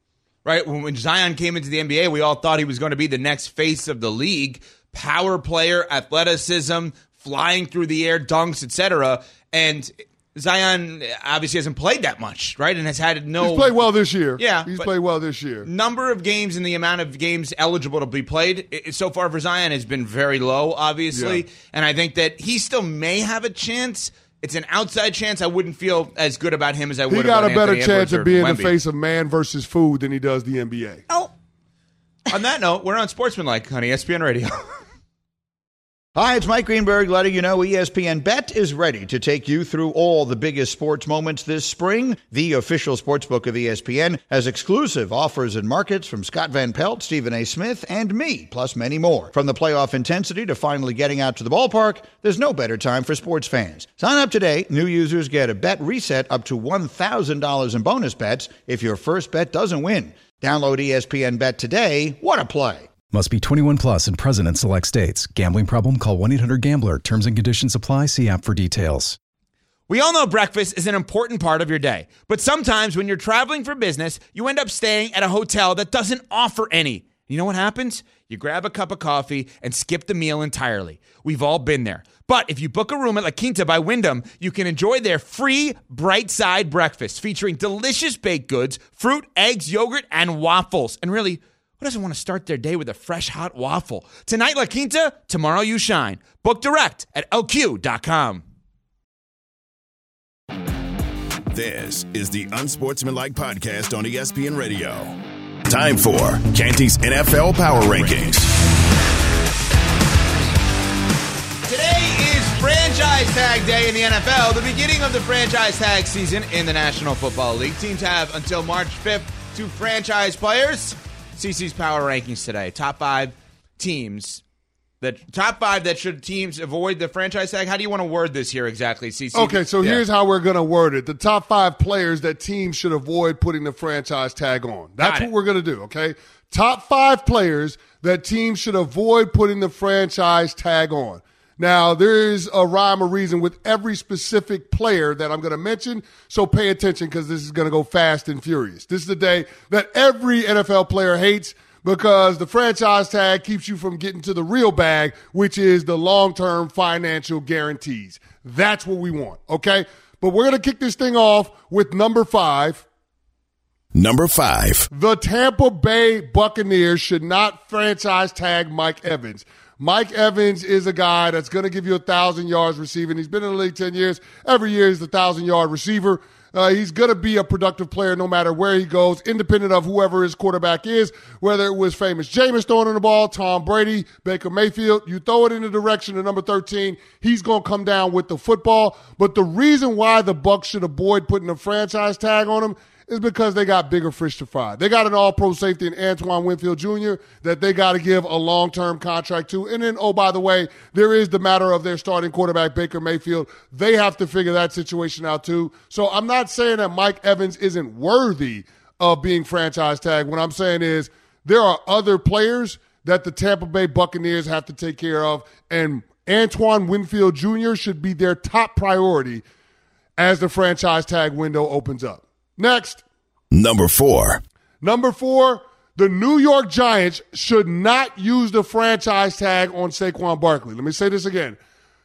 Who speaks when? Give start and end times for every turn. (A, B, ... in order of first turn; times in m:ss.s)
0:00.4-0:13.8 A
0:13.4-0:15.7 B
0:14.4-0:14.9 A
0:15.6-0:28.7 A
0:21.1-0:21.4 B
0:27.1-0:31.0 B
0:32.3-0:34.5 A
0:36.1-1:02.9 C
1:03.1-1:09.2 D
1:09.9-1:38.4 A
1:41.5-1:48.5 E
1:51.6-2:04.4 A
2:05.0-2:10.0 A
2:09.3-2:42.8 B
2:15.0-2:15.3 A
2:43.9-2:44.9 E
2:44.9-3:39.4 B
3:40.2-3:43.0 B
3:43.5-3:44.4 E
3:44.8-3:51.6 B